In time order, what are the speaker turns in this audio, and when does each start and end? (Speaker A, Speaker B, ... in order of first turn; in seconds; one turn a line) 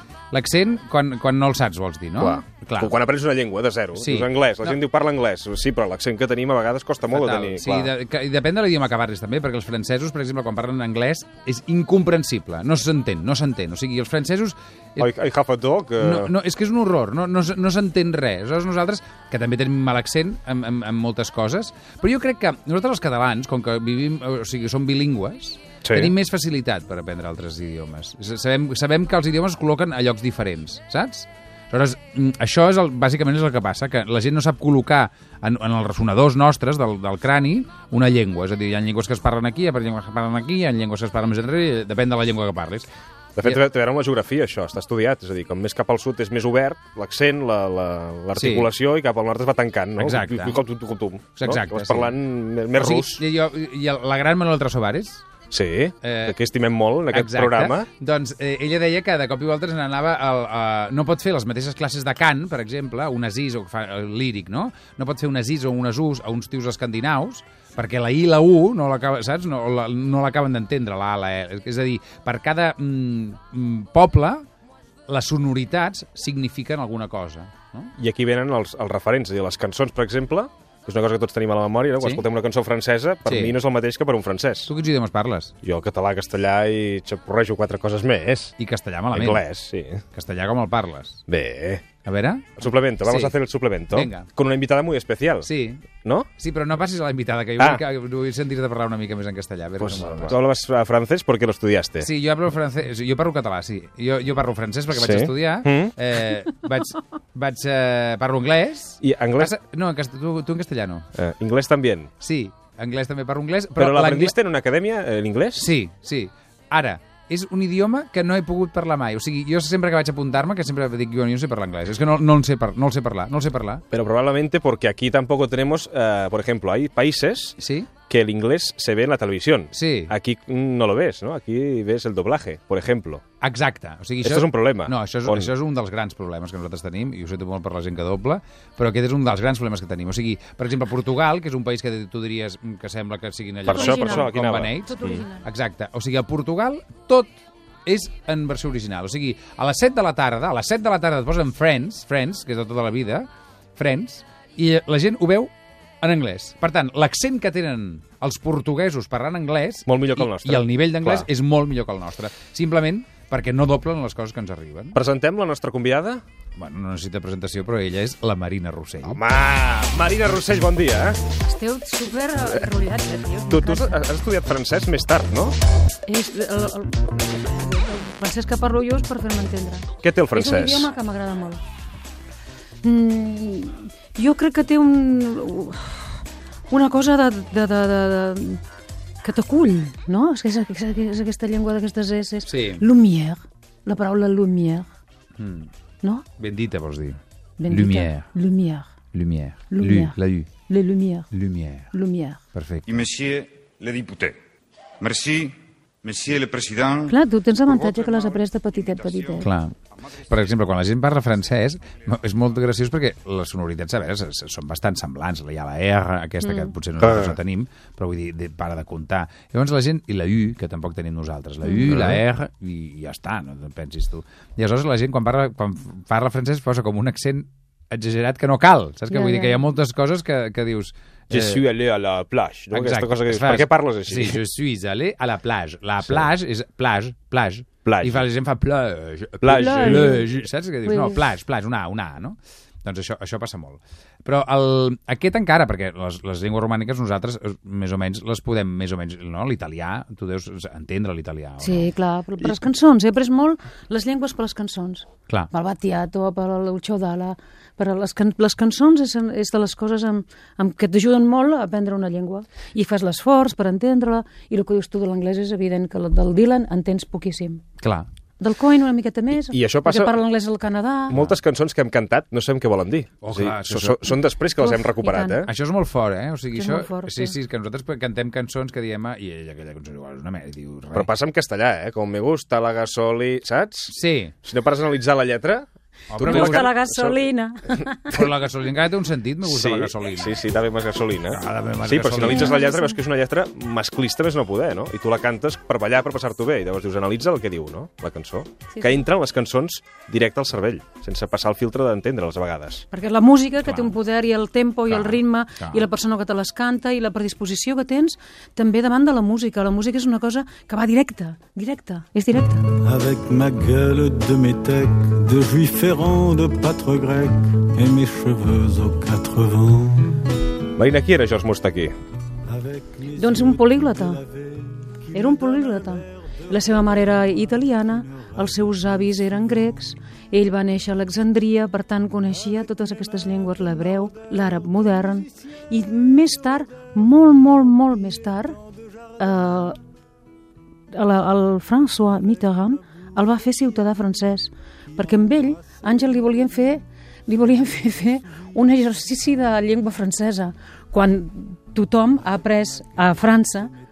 Speaker A: 0.3-2.9
Speaker B: 2.2-7.9
Speaker A: 4.0-4.8
Speaker A: 7.1-15.1
Speaker B: 15.0-16.3
Speaker A: 16.0-42.9
Speaker B: 25.8-26.1
Speaker B: 43.4-53.2
Speaker A: 48.4-48.7
Speaker A: 50.0-50.6
Speaker A: 51.4-52.1
Speaker A: 52.8-55.2
Speaker B: 55.5-57.9
Speaker A: 56.0-56.4
Speaker A: 57.1-74.5
Speaker A: 75.1-77.9
Speaker B: 78.0-84.7
Speaker A: 82.0-82.2
Speaker A: 83.3-83.6
Speaker A: 84.7-85.5
Speaker B: 85.6-88.5
Speaker A: 88.6-89.4
Speaker B: 89.1-90.0
Speaker A: 90.1-91.2
Speaker B: 91.3-91.8
Speaker A: 92.0-93.3
Speaker B: 92.6-95.5
Speaker A: 93.9-94.3
Speaker A: 95.4-95.8
Speaker A: 96.4-100.4
Speaker B: 99.8-102.1
Speaker A: 102.0-111.1
Speaker B: 104.9-106.0
Speaker B: 109.0-109.5
Speaker B: 111.2-112.1
Speaker A: 112.2-114.4
Speaker B: 113.8-115.7
Speaker A: 115.6-123.8
Speaker B: 123.9-133.2
Speaker A: 127.6-127.9
Speaker A: 129.7-130.1
Speaker A: 133.4-147.3
Speaker B: 134.2-135.5
Speaker B: 143.7-145.2
Speaker C: 143.7-144.3
Speaker C: 144.8-145.4
Speaker A: 147.9-165.0
Speaker B: 159.9-161.3
Speaker B: 164.9-166.2
Speaker A: 166.6-169.2
Speaker B: 169.0-171.2
Speaker C: 171.5-174.0
Speaker B: 173.5-175.6
Speaker C: 176.1-181.6
Speaker B: 180.0-180.9
Speaker C: 182.8-186.2
Speaker C: 186.7-188.6
Speaker C: 189.2-194.9
Speaker A: 192.5-192.9
Speaker A: 195.4-195.7
Speaker A: 196.4-198.3
Speaker C: 197.6-198.9
Speaker A: 199.1-200.5
Speaker C: 199.7-200.2
Speaker C: 200.7-201.3
Speaker A: 201.3-201.9
Speaker C: 201.9-202.4
Speaker A: 202.5-203.0
Speaker D: 202.9-204.4
Speaker D: 205.0-209.4
Speaker C: 207.1-209.5
Speaker A: 209.4-209.8
Speaker A: 210.3-231.6
Speaker C: 216.4-216.7
Speaker D: 217.0-217.3
Speaker B: 221.9-222.2
Speaker C: 229.1-229.6
Speaker B: 231.3-234.4
Speaker A: 232.7-251.9
Speaker B: 237.8-238.2
Speaker B: 239.4-240.2
Speaker C: 239.6-240.2
Speaker C: 240.9-241.2
Speaker C: 251.6-267.6
Speaker A: 267.8-268.1
Speaker C: 268.4-271.2
Speaker B: 269.5-270.2
Speaker B: 271.1-275.5
Speaker A: 271.1-271.4
Speaker A: 273.2-274.2
Speaker C: 274.6-275.4
Speaker A: 275.4-281.1
Speaker C: 276.5-277.4
Speaker B: 280.9-287.2
Speaker A: 283.9-284.3
Speaker A: 286.1-286.7
Speaker C: 286.2-288.1
Speaker A: 288.1-290.4
Speaker B: 289.4-302.9
Speaker A: 291.3-292.6
Speaker C: 292.2-293.0
Speaker C: 298.7-299.1
Speaker C: 302.9-312.6
Speaker A: 303.6-304.0
Speaker A: 304.9-305.9
Speaker E: 312.8-320.2
Speaker B: 320.8-321.9
Speaker E: 322.5-326.0
Speaker C: 323.2-324.2
Speaker C: 325.1-338.6
Speaker E: 326.7-327.2
Speaker C: 339.2-339.8
Speaker C: 340.9-353.7